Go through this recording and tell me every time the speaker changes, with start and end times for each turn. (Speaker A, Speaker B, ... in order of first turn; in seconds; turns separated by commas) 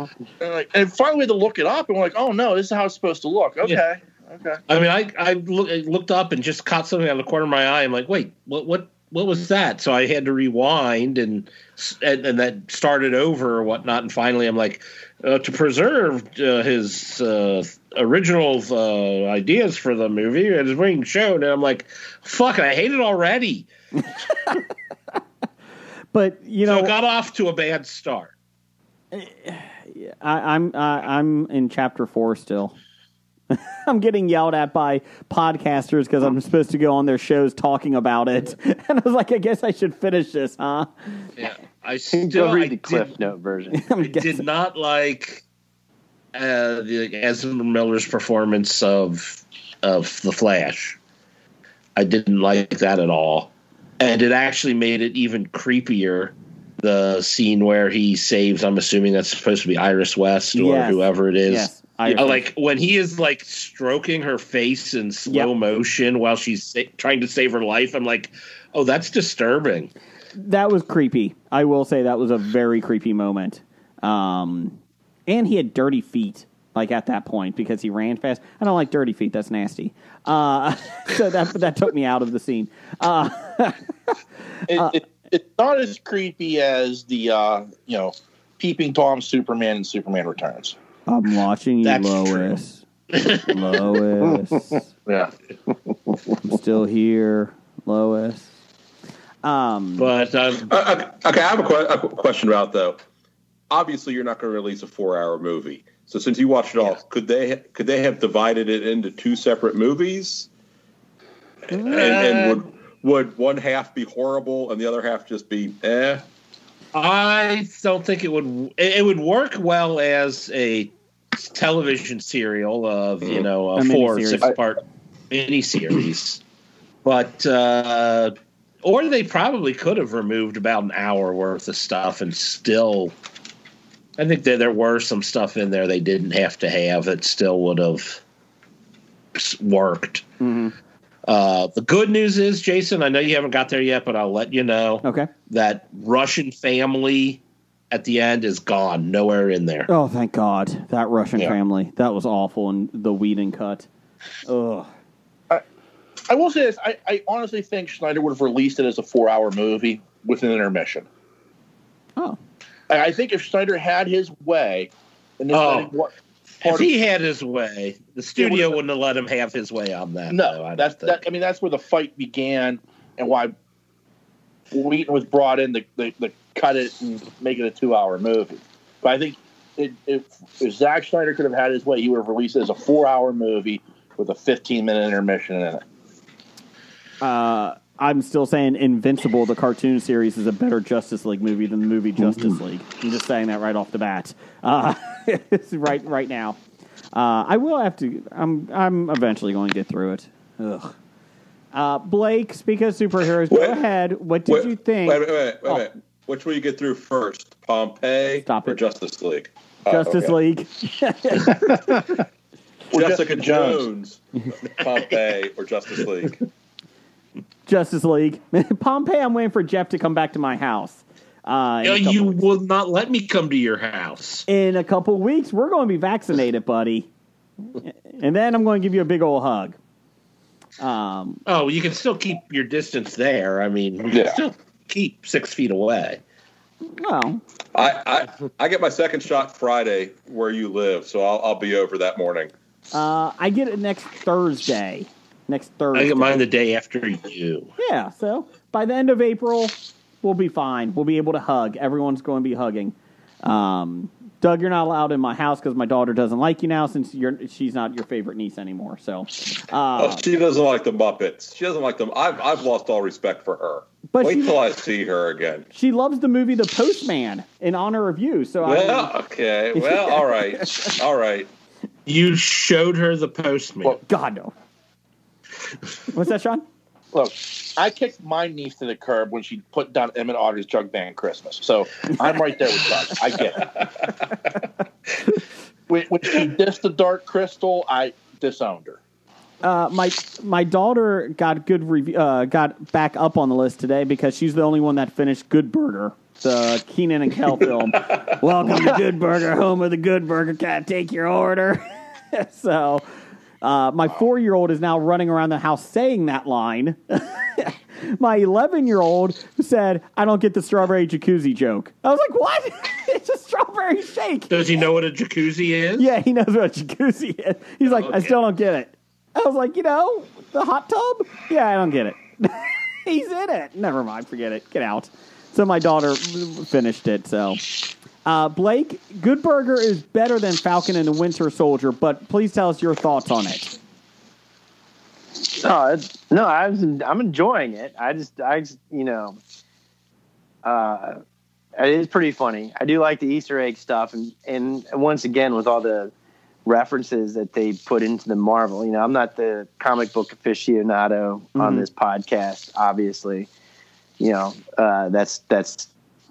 Speaker A: 0.4-4.6, Speaker B: 4.7-23.7, Speaker C: 26.1-26.9, Speaker B: 26.6-28.3, Speaker C: 29.1-32.7, Speaker C: 33.5-40.9, Speaker B: 41.4-43.2, Speaker D: 42.1-43.8, Speaker C: 43.7-44.4, Speaker B: 44.0-45.4, Speaker B: 46.3-51.0, Speaker B: 52.0-69.9, Speaker C: 60.5-62.4, Speaker C: 70.3-84.1, Speaker A: 84.7-90.8, Speaker C: 84.7-85.0, Speaker C: 91.1-94.8, Speaker A: 91.9-92.4, Speaker A: 95.0-95.3, Speaker C: 96.4-98.5, Speaker C: 99.4-100.1, Speaker B: 100.0-100.7, Speaker E: 100.6-103.0, Speaker E: 103.7-110.5, Speaker E: 111.7-116.2, Speaker B: 111.8-112.6, Speaker B: 116.9-126.4, Speaker C: 123.8-124.5, Speaker B: 127.0-133.1, Speaker B: 134.2-138.2, Speaker B: 139.3-140.2, Speaker C: 140.4-140.7, Speaker B: 141.2-149.9, Speaker C: 145.0-145.3, Speaker C: 149.9-153.9, Speaker C: 154.4-154.9, Speaker A: 156.3-161.1, Speaker A: 162.9-166.9, Speaker B: 165.5-165.9, Speaker B: 166.6-171.2, Speaker A: 168.4-168.8, Speaker A: 170.3-173.5, Speaker A: 174.7-185.8, Speaker C: 187.2-196.6, Speaker C: 197.1-200.9, Speaker C: 201.7-205.8, Speaker E: 203.5-203.8, Speaker E: 204.5-210.3, Speaker C: 208.4-208.8, Speaker C: 209.9-212.1, Speaker E: 212.9-214.2, Speaker A: 212.9-213.9, Speaker E: 214.7-216.3, Speaker C: 217.7-222.4, Speaker B: 221.8-224.4, Speaker C: 224.5-227.1, Speaker C: 227.8-229.8, Speaker C: 230.8-231.4, Speaker B: 231.4-236.2, Speaker C: 237.0-237.4, Speaker E: 237.7-242.5, Speaker C: 242.9-246.4, Speaker B: 245.9-247.7, Speaker C: 247.8-260.2, Speaker E: 260.0-265.6, Speaker C: 264.1-264.6, Speaker C: 265.7-269.1, Speaker E: 268.6-271.5, Speaker C: 269.7-270.9, Speaker B: 272.1-274.0, Speaker C: 274.1-274.5, Speaker C: 276.1-276.6, Speaker A: 277.1-283.9, Speaker A: 285.9-289.0, Speaker C: 289.6-303.1, Speaker C: 303.6-314.7, Speaker B: 314.5-316.1, Speaker C: 316.0-327.6, Speaker B: 317.9-318.3, Speaker C: 328.2-333.8, Speaker D: 335.5-339.4, Speaker D: 340.6-341.2, Speaker D: 341.8-346.1, Speaker D: 346.6-353.5, Speaker C: 351.6-351.9, Speaker D: 354.2-355.9